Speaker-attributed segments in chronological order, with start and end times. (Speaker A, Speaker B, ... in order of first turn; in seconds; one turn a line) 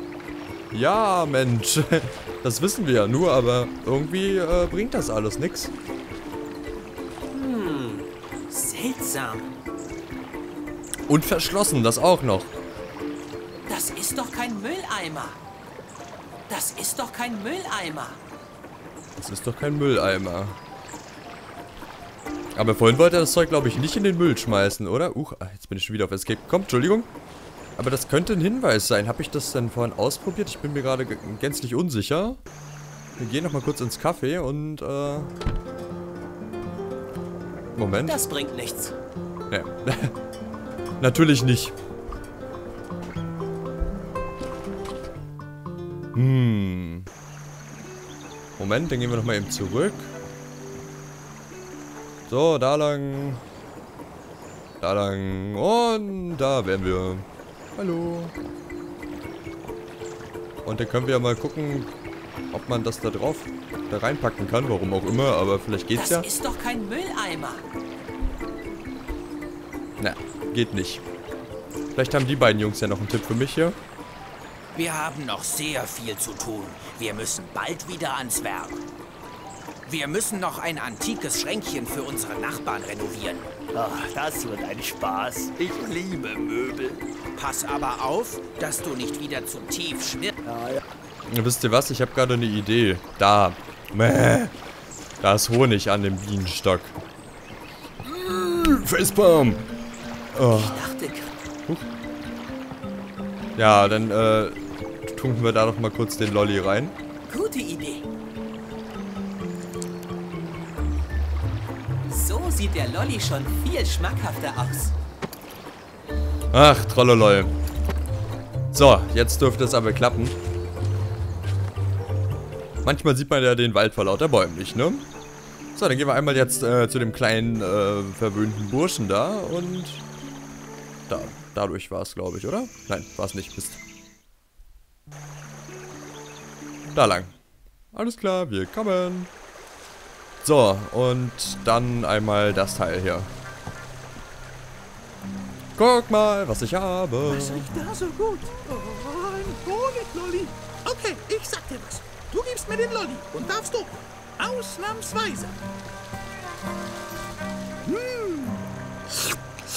Speaker A: 0.7-5.7
Speaker B: 7.3-9.5
Speaker A: 11.1-12.5
Speaker B: 13.7-15.4
Speaker B: 16.5-18.2
Speaker A: 19.2-20.6
Speaker A: 22.6-27.1
Speaker A: 27.8-32.4
Speaker A: 33.2-35.3
Speaker A: 37.8-38.2
Speaker B: 38.1-39.0
Speaker A: 39.5-40.1
Speaker A: 41.0-41.8
Speaker A: 46.1-47.1
Speaker A: 48.6-50.1
Speaker A: 52.3-53.4
Speaker A: 54.8-58.3
Speaker A: 60.6-61.9
Speaker A: 62.5-66.3
Speaker B: 66.0-67.7
Speaker A: 70.0-71.0
Speaker A: 72.0-73.8
Speaker C: 74.8-78.8
Speaker C: 79.9-83.6
Speaker D: 83.7-87.0
Speaker C: 87.3-90.3
Speaker D: 90.5-90.8
Speaker A: 91.3-94.5
Speaker A: 95.2-97.0
Speaker A: 98.0-99.7
Speaker A: 100.3-100.9
Speaker B: 100.5-101.5
Speaker A: 103.6-107.0
Speaker B: 107.3-108.1
Speaker B: 112.1-115.0
Speaker A: 116.5-117.5
Speaker A: 118.7-120.4
Speaker A: 122.8-125.0
Speaker A: 125.8-130.0
Speaker A: 131.1-133.8
Speaker A: 136.9-137.3
Speaker A: 137.9-139.3
Speaker A: 140.4-143.3
Speaker A: 145.8-147.7
Speaker E: 147.5-155.6
Speaker E: 157.9-158.6